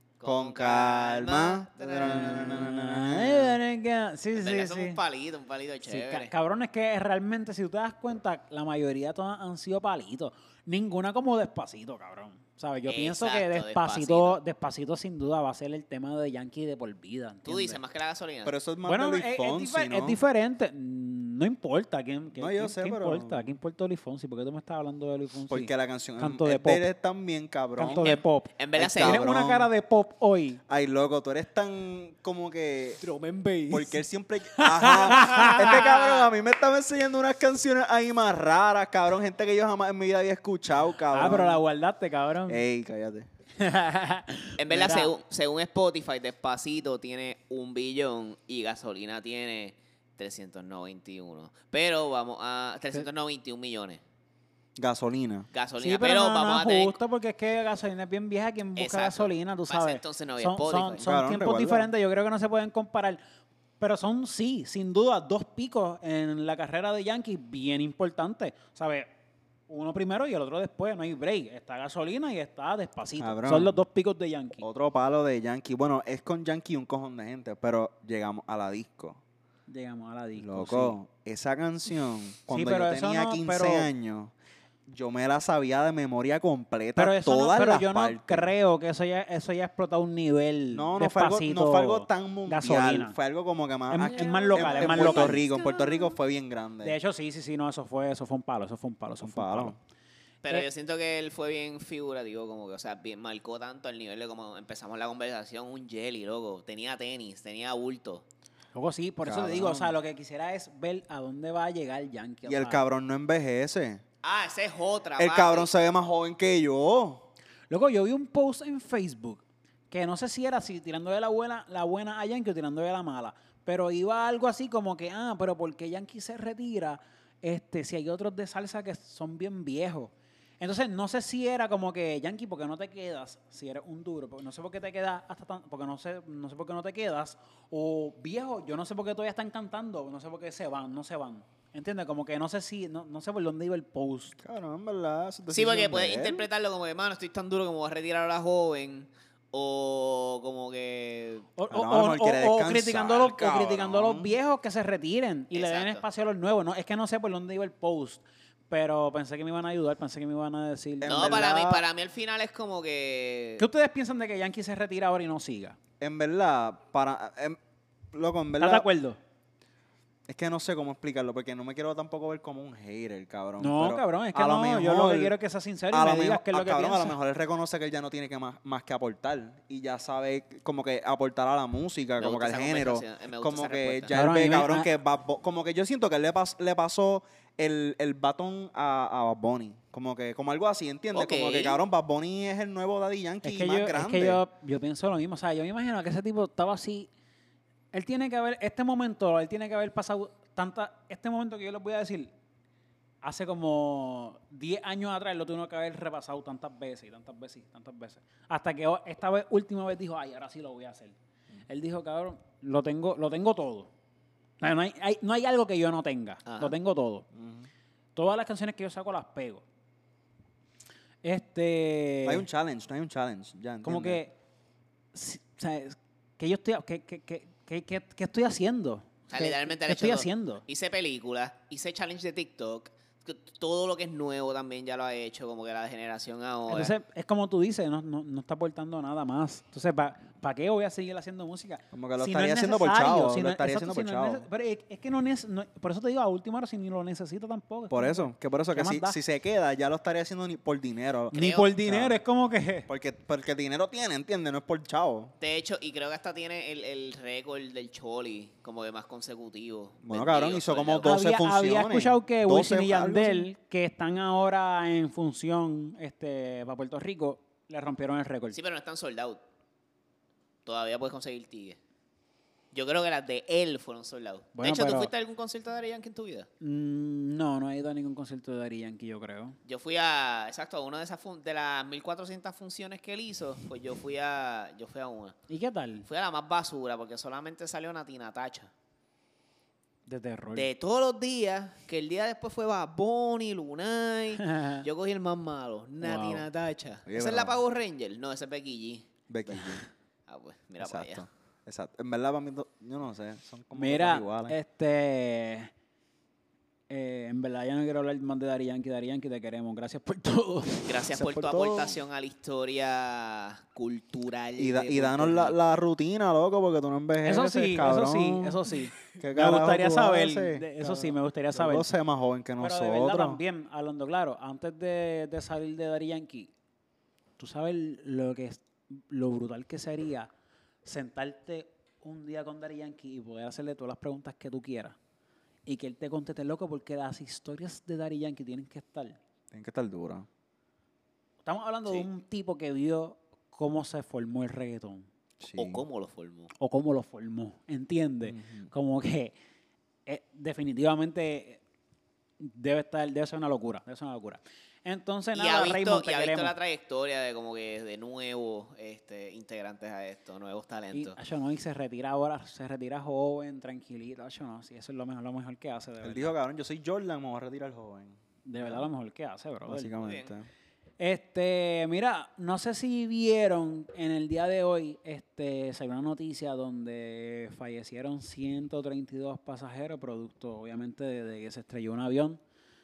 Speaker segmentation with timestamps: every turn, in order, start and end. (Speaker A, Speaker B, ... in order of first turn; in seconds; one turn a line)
Speaker A: 0.2-2.7
Speaker B: 0.2-3.6
Speaker C: 2.0-5.0
Speaker A: 4.3-6.3
Speaker C: 5.8-17.8
Speaker A: 12.9-14.4
Speaker A: 17.4-18.6
Speaker B: 18.4-20.2
Speaker C: 18.9-26.9
Speaker B: 22.3-23.5
Speaker B: 25.5-28.1
Speaker C: 27.8-30.6
Speaker A: 27.9-29.2
Speaker B: 28.7-29.7
Speaker B: 30.7-33.0
Speaker C: 33.0-34.0
Speaker B: 33.7-41.6
Speaker C: 34.5-35.8
Speaker A: 35.2-36.3
Speaker C: 41.1-42.6
Speaker B: 42.5-43.3
Speaker C: 43.6-45.1
Speaker A: 44.6-54.0
Speaker B: 54.8-55.5
Speaker A: 55.5-57.0
Speaker C: 55.8-63.2
Speaker A: 58.8-61.0
Speaker B: 61.0-61.9
Speaker C: 63.8-69.1
Speaker C: 69.7-74.6
Speaker B: 73.2-73.8
Speaker B: 74.6-79.2
Speaker C: 79.7-81.0
Speaker B: 80.4-84.3
Speaker C: 82.5-83.9
Speaker B: 84.9-88.5
Speaker C: 87.0-93.2
Speaker B: 90.7-97.0
Speaker C: 93.9-95.5
Speaker A: 94.3-96.0
Speaker C: 96.8-99.8
Speaker B: 99.2-99.8
Speaker A: 100.4-108.2
Speaker C: 108.7-112.8
Speaker B: 109.2-110.0
Speaker B: 112.4-114.0
Speaker A: 114.2-115.7
Speaker B: 115.2-117.3
Speaker C: 117.7-144.4
Speaker B: 144.4-146.5
Speaker A: 145.5-151.5
Speaker C: 151.6-161.5
Speaker B: 151.7-154.3
Speaker A: 155.5-156.0
Speaker B: 161.0-161.8
Speaker A: 161.0-163.6
Speaker C: 163.6-165.8
Speaker B: 166.0-167.6
Speaker B: 168.1-168.9
Speaker C: 168.6-169.2
Speaker B: 170.3-175.3
Speaker C: 173.6-177.2
Speaker B: 175.9-194.4
Speaker A: 182.2-184.2
Speaker C: 184.1-184.9
Speaker A: 191.1-191.8
Speaker C: 193.4-197.1
Speaker C: 197.9-202.3
Speaker C: 203.2-211.2
Speaker C: 211.7-213.9
Speaker C: 214.6-217.3
Speaker A: 216.4-216.7
Speaker B: 217.3-217.7
Speaker C: 218.2-219.6
Speaker C: 221.2-222.4
Speaker B: 222.2-224.2
Speaker C: 223.8-224.3
Speaker C: 225.1-230.6
Speaker A: 229.3-236.9
Speaker C: 236.7-249.2
Speaker B: 241.9-244.5
Speaker B: 247.9-252.2
Speaker C: 251.3-252.9
Speaker A: 251.3-251.7
Speaker B: 252.9-255.3
Speaker A: 255.4-261.1
Speaker B: 260.0-263.5
Speaker C: 261.0-268.6
Speaker A: 268.5-269.4
Speaker A: 270.6-271.8
Speaker A: 272.7-276.5
Speaker C: 274.5-275.1
Speaker C: 276.6-279.6
Speaker A: 279.6-285.4
Speaker C: 285.5-286.1
Speaker A: 286.1-288.7
Speaker C: 290.1-290.7
Speaker A: 290.5-299.1
Speaker C: 294.4-294.8
Speaker C: 296.0-296.4
Speaker B: 297.1-297.6
Speaker B: 299.3-299.8
Speaker A: 300.3-301.2
Speaker B: 300.8-304.6
Speaker C: 303.7-305.7
Speaker C: 306.9-311.0
Speaker A: 310.9-315.6
Speaker B: 311.1-312.0
Speaker B: 314.6-318.6
Speaker C: 317.2-321.9
Speaker B: 319.1-323.4
Speaker C: 322.6-326.5
Speaker C: 327.4-330.3
Speaker C: 330.8-334.9
Speaker C: 335.6-339.2
Speaker B: 339.5-340.3
Speaker C: 341.4-345.1
Speaker B: 345.4-345.8
Speaker A: 345.6-346.5
Speaker C: 346.6-349.3
Speaker B: 348.2-348.7
Speaker C: 350.1-351.6
Speaker C: 352.4-356.5
Speaker A: 355.3-361.2
Speaker C: 360.9-366.4
Speaker B: 366.0-368.9
Speaker C: 368.4-370.1
Speaker B: 369.7-370.5
Speaker A: 370.0-370.3
Speaker C: 371.0-382.4